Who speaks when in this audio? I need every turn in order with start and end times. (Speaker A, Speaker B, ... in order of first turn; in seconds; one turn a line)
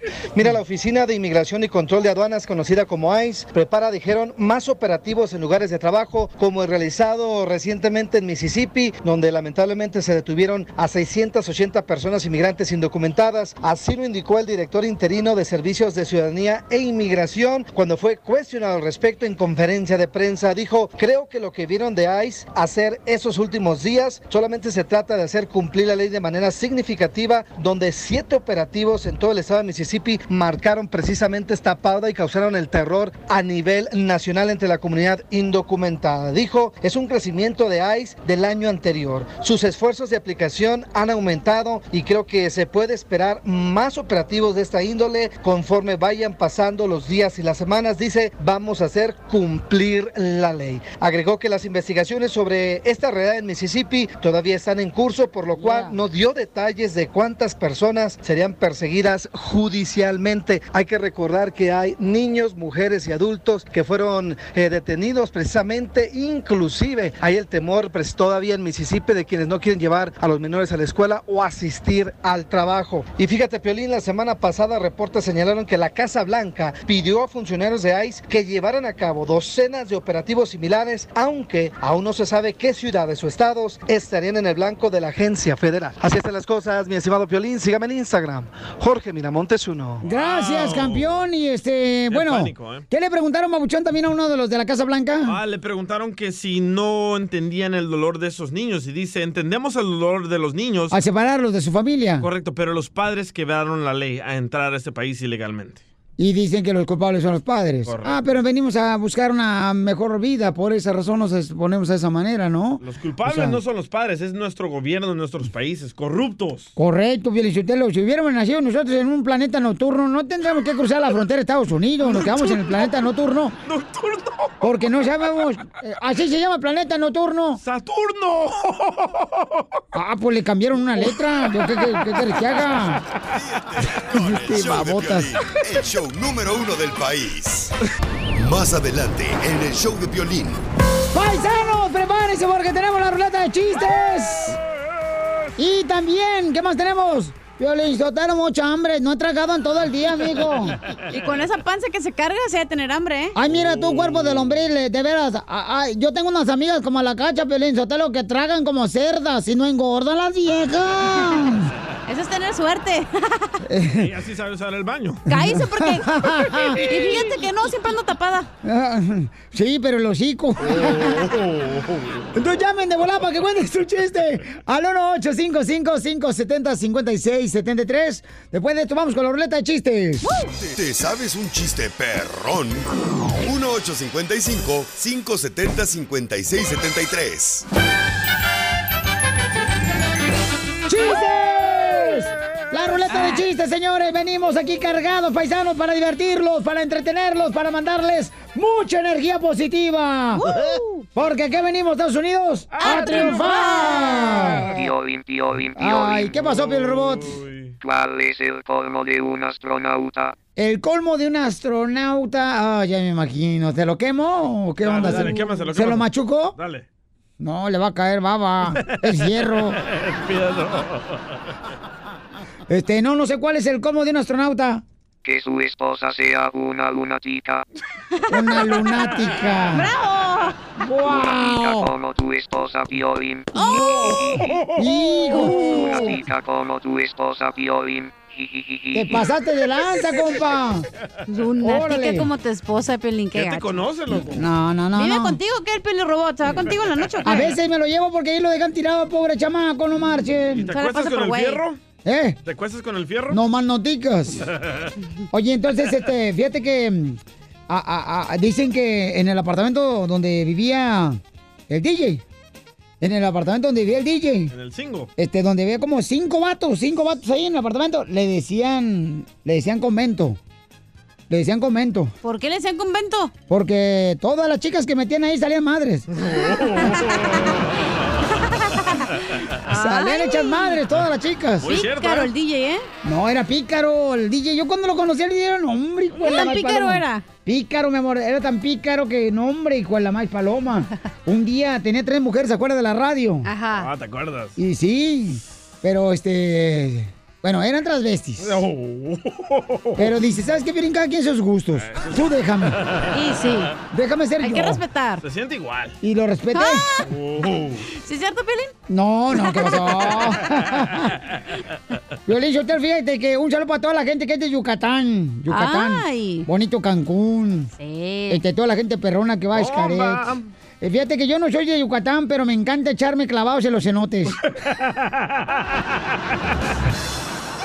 Speaker A: 0.3-90.0
Speaker B: 55.5-56.0
Speaker B: 90.0-95.4
Speaker C: 90.1-91.2
Speaker C: 92.1-92.8
Speaker C: 95.2-101.0
Speaker B: 100.9-102.3
Speaker C: 102.2-105.8
Speaker B: 106.2-113.6
Speaker C: 107.9-108.2
Speaker C: 112.8-116.7
Speaker B: 116.8-123.5
Speaker C: 122.0-122.9
Speaker C: 123.6-124.6
Speaker B: 124.6-127.6
Speaker C: 127.6-129.6
Speaker B: 129.9-133.0
Speaker D: 133.3-137.7
Speaker B: 134.1-135.3
Speaker D: 138.3-140.6
Speaker B: 141.1-144.6
Speaker B: 145.6-150.8
Speaker E: 151.1-153.3
Speaker B: 153.3-161.7
Speaker C: 153.5-154.4
Speaker E: 162.1-163.6
Speaker B: 163.7-164.1
Speaker C: 164.0-165.2
Speaker E: 165.3-166.1
Speaker B: 165.3-167.0
Speaker E: 166.7-168.5
Speaker B: 168.6-171.3
Speaker C: 170.6-172.2
Speaker B: 172.3-180.3
Speaker D: 180.5-187.7
Speaker B: 190.9-200.5
Speaker E: 200.3-201.1
Speaker B: 201.1-204.9
Speaker C: 202.7-204.7
Speaker E: 202.8-204.3
Speaker F: 204.6-206.3
Speaker B: 205.8-207.3
Speaker C: 206.3-207.7
Speaker F: 207.8-210.3
Speaker B: 210.6-216.6
Speaker C: 214.8-216.8
Speaker B: 217.4-219.8
Speaker C: 218.8-221.4
Speaker B: 222.7-224.8
Speaker F: 225.2-227.6
Speaker B: 228.3-229.9
Speaker E: 229.7-230.6
Speaker B: 230.8-231.9
Speaker F: 231.0-234.6
Speaker E: 233.5-234.4
Speaker C: 234.3-235.5
Speaker B: 234.7-236.2
Speaker F: 235.3-239.3
Speaker B: 238.9-240.8
Speaker E: 241.3-243.8
Speaker B: 241.6-242.3
Speaker C: 243.3-244.5
Speaker B: 244.3-245.4
Speaker E: 244.9-247.6
Speaker B: 247.2-250.7
Speaker C: 250.5-251.8
Speaker E: 250.7-251.6
Speaker B: 252.0-252.4
Speaker C: 252.4-253.4
Speaker B: 253.3-254.4
Speaker B: 255.3-262.2
Speaker B: 263.0-264.5
Speaker C: 264.5-265.1
Speaker B: 265.2-270.4
Speaker B: 271.3-272.1
Speaker E: 272.2-273.3
Speaker B: 273.5-277.0
Speaker C: 276.3-277.9
Speaker E: 278.5-279.1
Speaker E: 279.7-280.8
Speaker B: 279.7-281.7
Speaker C: 281.6-282.3
Speaker E: 281.6-282.9
Speaker B: 283.0-293.4
Speaker E: 286.2-287.2
Speaker E: 293.4-293.9
Speaker C: 293.7-294.6
Speaker B: 294.6-298.6
Speaker C: 298.4-300.1
Speaker B: 299.9-302.8
Speaker C: 301.7-302.2
Speaker C: 302.8-303.1
Speaker E: 303.1-303.8
Speaker B: 303.9-304.8
Speaker E: 304.4-305.2
Speaker C: 305.2-306.0
Speaker B: 306.0-306.9
Speaker E: 306.5-307.1
Speaker C: 307.0-307.8
Speaker E: 307.9-308.7
Speaker B: 308.9-311.2
Speaker E: 309.5-309.7
Speaker B: 312.3-317.7
Speaker E: 315.5-316.5
Speaker E: 317.8-318.4
Speaker B: 318.3-320.2
Speaker C: 319.5-320.5
Speaker B: 320.8-324.4
Speaker C: 324.7-325.3